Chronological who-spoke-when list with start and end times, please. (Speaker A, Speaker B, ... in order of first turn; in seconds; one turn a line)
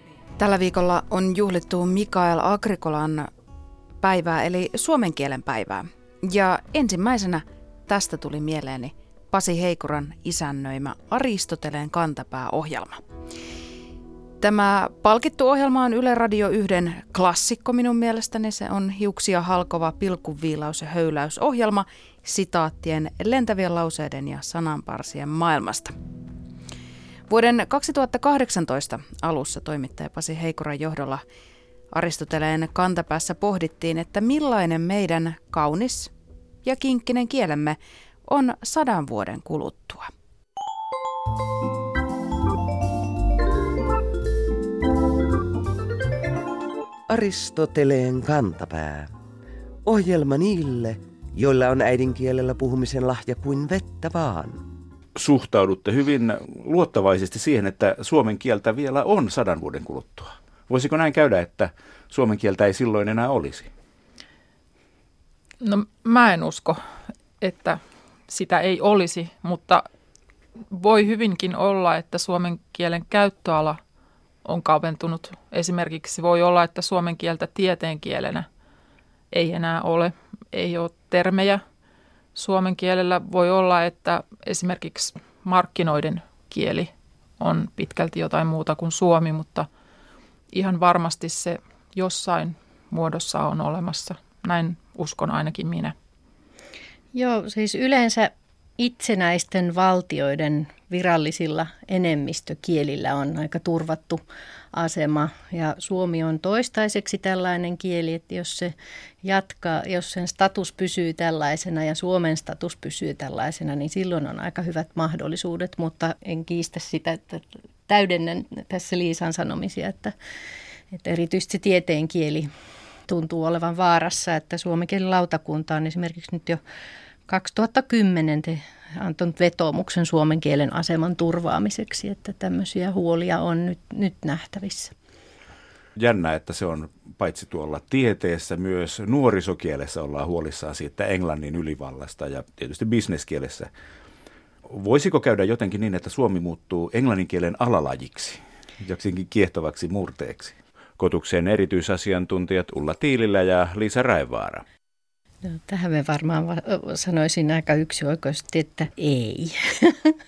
Speaker A: 0.4-3.3
Speaker A: 4.0-13.0
Speaker A: 14.4-25.9
Speaker A: 27.3-31.2
Speaker A: 31.9-36.1
Speaker A: 36.6-40.1
Speaker B: 47.1-49.1
Speaker B: 49.8-54.6
Speaker C: 55.1-63.7
Speaker D: 65.6-66.8
Speaker D: 67.4-69.8
Speaker D: 70.7-73.8
Speaker D: 74.4-78.5
Speaker D: 79.3-81.6
Speaker D: 82.3-89.7
Speaker D: 90.5-95.9
Speaker E: 97.1-104.2
Speaker E: 104.7-108.7
Speaker E: 109.2-120.1
Speaker E: 120.9-122.5
Speaker E: 123.1-126.6
Speaker E: 127.3-134.9
Speaker C: 136.0-143.7
Speaker C: 144.7-154.6
Speaker E: 155.4-160.1